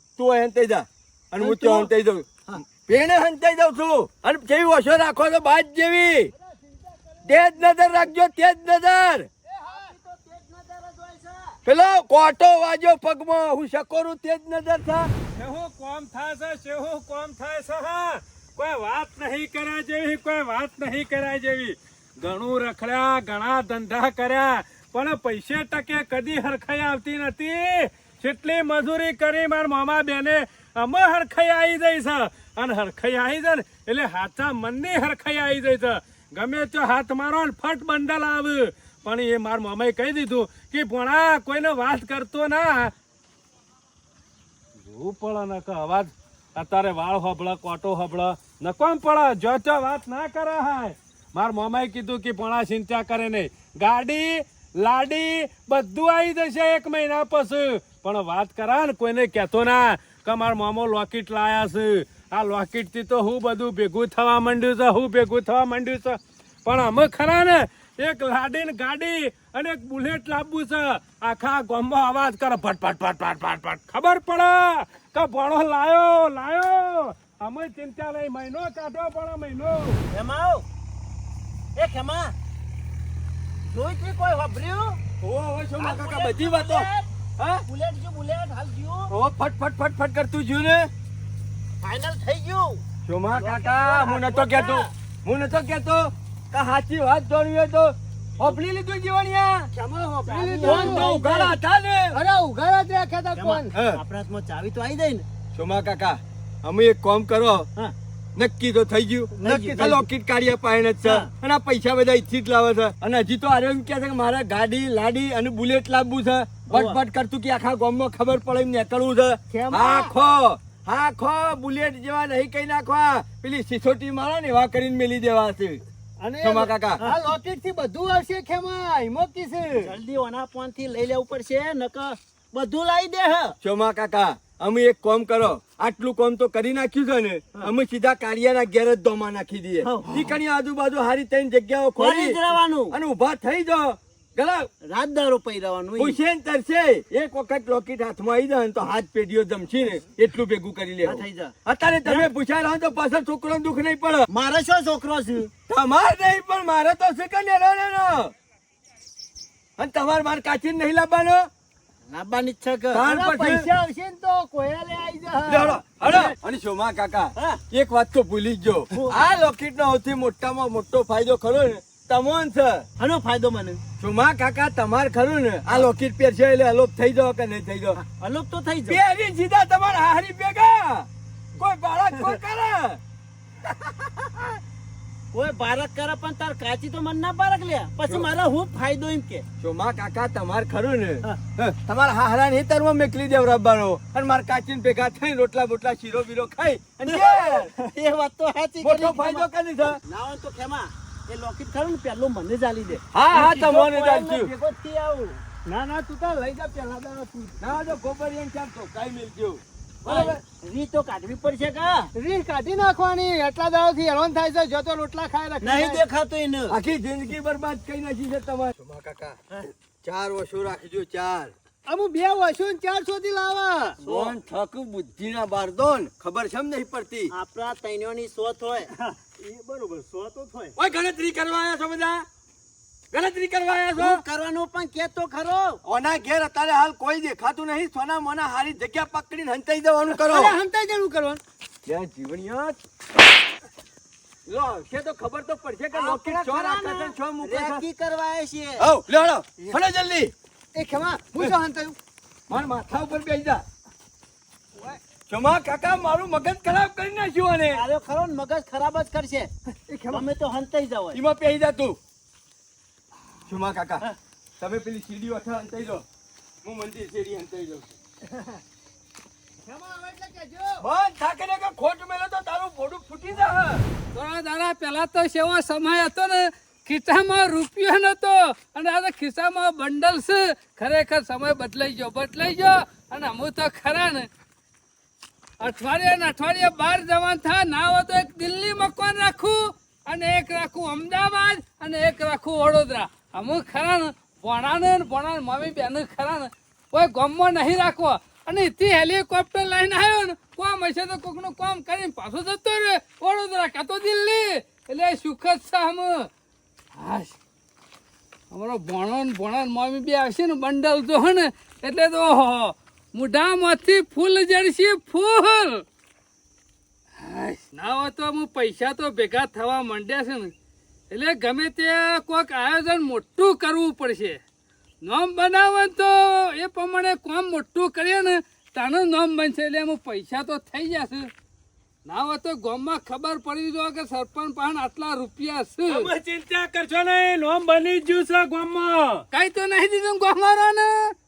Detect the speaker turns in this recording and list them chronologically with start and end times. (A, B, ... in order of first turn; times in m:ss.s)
0:00.2-0:06.3 A
0:01.4-0:01.9 B
0:06.3-0:07.4 C
0:07.2-0:09.3 A
0:09.5-0:09.9 C
0:09.7-0:11.6 B
0:11.7-0:15.1 A
0:15.4-0:42.9 D
0:44.8-1:20.0 D
1:20.1-1:20.7 B
1:21.8-1:22.4 B
1:23.7-1:25.0 B
1:25.2-1:26.9 A
1:25.8-1:27.1 B
1:27.7-1:29.1 B
1:29.1-1:30.9 A
1:31.8-1:32.8 B
1:33.1-1:39.7 A
1:33.3-1:34.9 B
1:39.8-1:41.6 C
1:40.3-1:41.3 B
1:40.6-1:42.2 A
1:42.1-1:43.7 C
1:43.4-1:45.2 B
1:43.7-1:44.0 A
1:45.5-1:47.7 A
1:48.4-2:05.8 A
1:49.4-1:50.0 C
1:49.5-1:49.8 B
1:56.7-1:57.0 B
1:59.5-2:00.1 C
2:06.2-2:10.0 C
2:06.4-2:07.0 A
2:09.8-2:13.6 B
2:13.6-2:24.7 A
2:19.8-2:20.4 B
2:22.0-2:23.0 B
2:24.9-2:26.2 B
2:26.0-2:34.3 A
2:31.0-2:32.3 B
2:34.3-2:35.5 B
2:35.7-2:38.3 A
2:39.8-2:41.5 A
2:42.1-2:43.5 B
2:42.9-2:43.7 A
2:43.2-2:45.8 C
2:45.5-2:52.9 A
2:46.0-2:46.4 B
2:53.0-2:53.8 B
2:54.0-2:58.0 A
2:58.0-2:59.0 B
2:58.9-3:03.0 A
3:05.3-3:09.5 B
3:09.6-3:17.7 A
3:17.0-3:25.4 B
3:18.8-3:20.0 A
3:23.1-3:24.6 A
3:25.6-3:27.6 C
3:27.6-3:30.4 A
3:30.0-3:32.1 B
3:32.2-3:36.0 C
3:35.6-3:36.8 B
3:36.7-3:39.5 A
3:40.0-3:41.5 A
3:41.9-3:44.0 C
3:44.0-3:47.3 A
3:44.1-3:44.4 B
3:47.3-3:48.9 B
3:49.6-3:50.7 C
3:50.1-3:50.7 B
3:50.8-3:52.3 A
3:53.1-3:54.2 A
3:54.0-3:55.8 B
3:55.8-4:00.6 A
4:00.1-4:01.4 C
4:01.9-4:02.8 A
4:04.5-4:07.8 A
4:05.9-4:08.8 B
4:08.8-4:10.3 A
4:10.8-4:12.0 C
4:12.5-4:13.6 A
4:15.3-4:17.8 A
4:17.7-4:19.5 B
4:19.9-4:20.3 C
4:20.1-4:21.2 B
4:21.1-4:22.0 A
4:23.5-4:24.1 A
4:24.6-4:26.0 A
4:26.6-4:27.9 A
4:29.6-4:30.8 C
4:30.8-4:33.8 A
4:34.1-4:44.3 E
4:45.6-5:06.3 E
5:07.0-5:07.4 E
5:08.5-5:15.8 E
5:17.2-5:20.5 E
5:21.1-5:24.4 E
5:25.0-5:31.3 E
5:32.1-5:36.1 E
5:35.9-5:39.2 D
5:39.3-5:41.1 E